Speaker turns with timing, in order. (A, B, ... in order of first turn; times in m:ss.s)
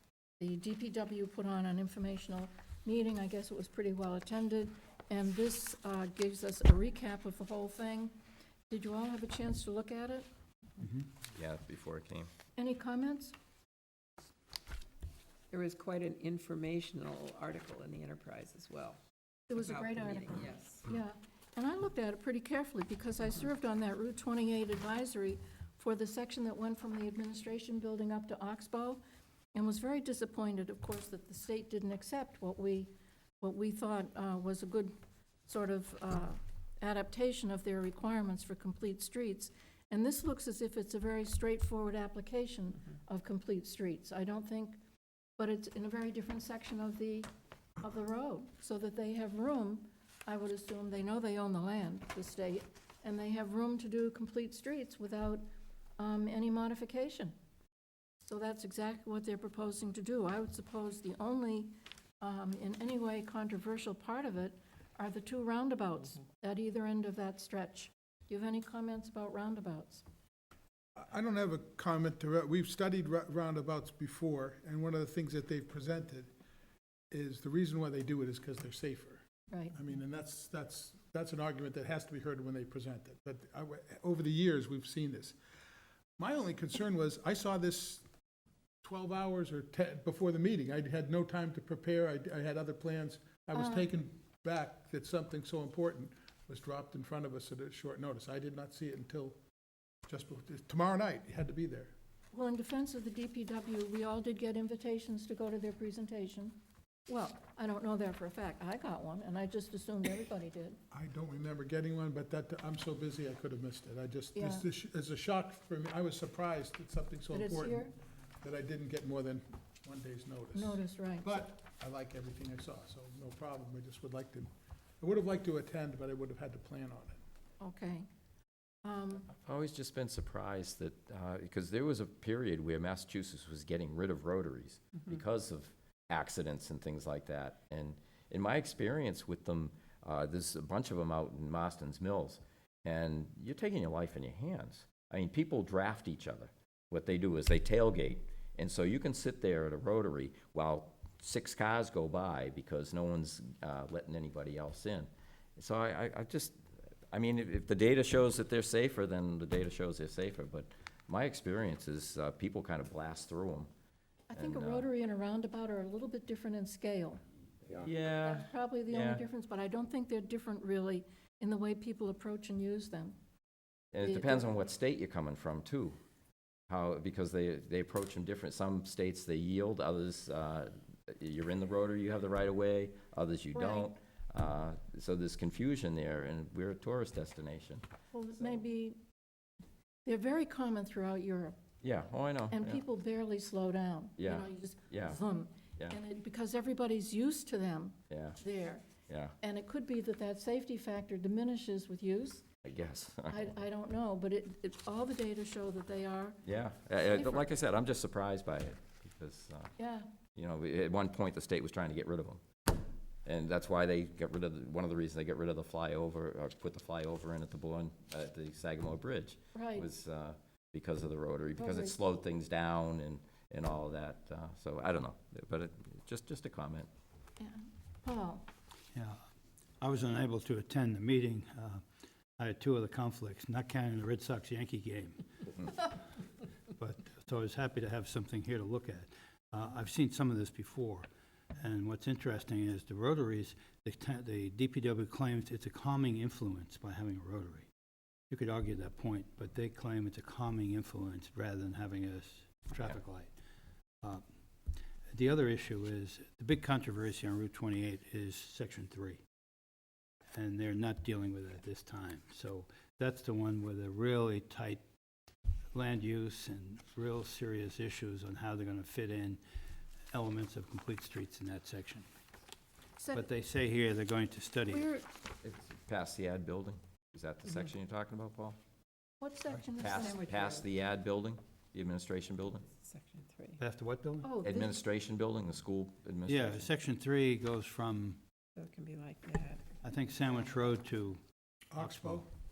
0:00.4-0:08.2 A
0:08.7-0:10.3 A
0:10.8-0:11.1 B
0:11.3-0:12.3 C
0:12.6-0:13.4 A
0:15.5-0:19.0 D
0:19.5-0:29.0 A
0:19.6-0:20.8 D
0:29.6-0:35.0 A
0:35.5-0:44.8 A
0:45.4-0:47.3 A
0:47.8-0:55.4 A
0:56.0-0:57.4 A
0:58.2-1:10.0 A
1:11.0-1:16.3 E
1:17.1-1:25.4 E
1:19.5-1:19.8 A
1:26.2-1:28.0 E
1:28.8-1:39.4 E
1:33.6-1:33.9 A
1:40.1-1:41.9 E
1:42.3-1:46.6 A
1:47.1-1:50.8 A
1:50.9-1:57.9 E
1:54.4-1:54.6 A
1:57.3-1:57.9 A
1:58.4-2:04.5 E
2:00.5-2:01.4 A
2:05.0-2:07.2 E
2:07.6-2:08.1 A
2:08.8-2:09.3 A
2:09.4-2:36.6 C
2:37.1-2:43.7 C
2:44.3-2:47.2 A
2:44.4-2:44.9 C
2:47.7-2:49.2 C
2:48.2-2:53.2 A
2:53.9-2:56.0 C
2:54.0-2:54.4 A
2:56.7-3:07.8 C
3:03.6-3:03.9 A
3:08.1-3:09.0 A
3:10.0-3:11.6 A
3:11.8-3:12.8 C
3:12.5-3:18.8 A
3:14.2-3:15.2 C
3:18.1-3:18.4 C
3:19.1-3:19.4 C
3:19.4-3:22.4 A
3:22.6-3:23.5 C
3:23.3-3:26.4 A
3:26.4-3:29.7 C
3:27.1-3:27.5 A
3:29.8-3:30.1 A
3:30.4-3:32.4 C
3:33.3-3:46.9 C
3:39.5-3:39.9 A
3:41.6-3:42.0 A
3:47.4-3:48.5 A
3:48.9-3:49.2 B
3:49.8-3:51.8 B
3:52.4-3:56.0 B
3:56.8-4:07.7 B
4:08.3-4:13.3 B
4:14.0-4:19.2 B
4:20.3-4:24.8 B
4:25.7-4:29.4 B
4:30.1-4:32.1 B
4:33.0-4:33.3 A
4:33.1-4:34.9 B
4:34.7-4:35.1 A
4:35.4-4:38.6 C
4:39.2-4:40.3 A
4:39.8-4:42.7 C
4:39.9-4:40.6 D
4:42.8-4:43.6 D
4:43.6-4:44.3 B
4:44.2-4:44.8 A
4:44.4-4:46.7 C
4:46.3-4:48.2 B
4:48.6-4:49.7 D
4:49.8-4:51.2 B
4:51.7-4:52.2 E
4:51.8-4:52.2 B